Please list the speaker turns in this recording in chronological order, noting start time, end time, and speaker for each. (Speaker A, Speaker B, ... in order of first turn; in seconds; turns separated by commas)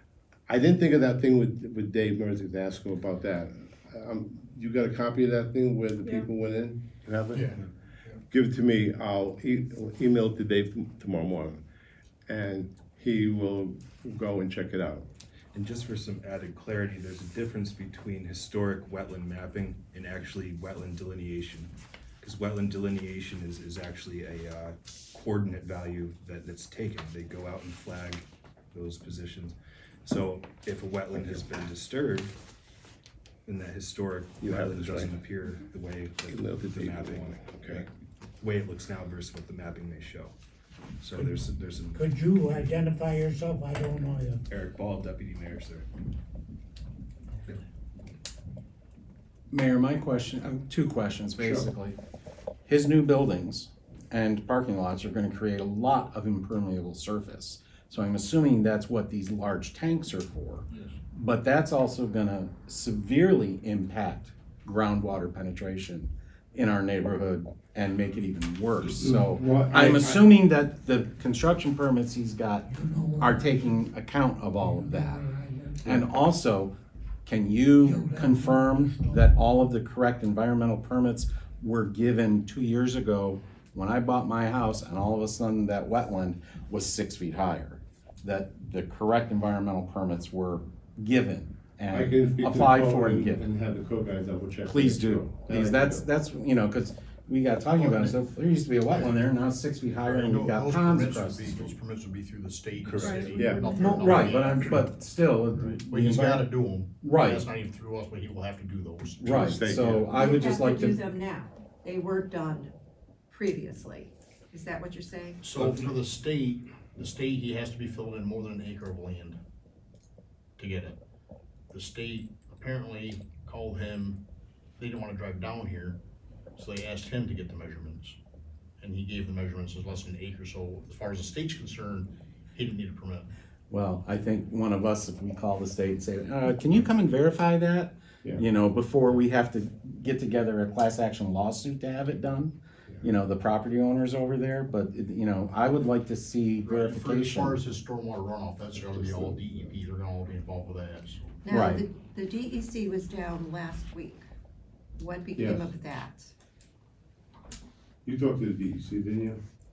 Speaker A: 0.5-7.5, Speaker A: 8.3-11.6, Speaker A: 12.3-15.1, Speaker B: 15.5-32.3, Speaker B: 33.5-37.9, Speaker A: 34.4-35.1, Speaker A: 36.3-37.9, Speaker B: 38.4-40.3, Speaker B: 41.0-42.7, Speaker C: 41.1-41.4, Speaker C: 41.9-44.4, Speaker B: 44.5-45.9, Speaker D: 49.5-52.0, Speaker A: 51.4-51.7, Speaker D: 52.7-72.7, Speaker A: 68.8-70.3, Speaker C: 72.7-73.7, Speaker D: 73.2-75.2, Speaker C: 74.6-76.0, Speaker D: 75.9-76.7, Speaker D: 77.2-93.4, Speaker C: 77.8-79.4, Speaker A: 91.9-96.0, Speaker D: 94.7-101.7, Speaker E: 97.7-98.2, Speaker E: 98.9-99.2, Speaker E: 100.0-104.9, Speaker A: 102.9-104.2, Speaker F: 103.2-104.0, Speaker D: 103.8-107.5, Speaker E: 105.5-109.8, Speaker D: 109.2-111.0, Speaker A: 109.2-110.2, Speaker F: 110.1-112.7, Speaker F: 113.3-115.4, Speaker E: 115.4-119.4, Speaker A: 115.5-115.9, Speaker E: 120.6-121.0, Speaker E: 121.7-124.2, Speaker E: 124.8-126.0, Speaker E: 126.6-128.2, Speaker E: 128.8-133.3, Speaker D: 133.7-147.6, Speaker E: 146.6-151.5, Speaker A: 148.8-149.8, Speaker F: 151.5-154.3, Speaker D: 151.5-151.8, Speaker F: 155.0-156.3, Speaker A: 155.4-155.7, Speaker A: 158.1-159.4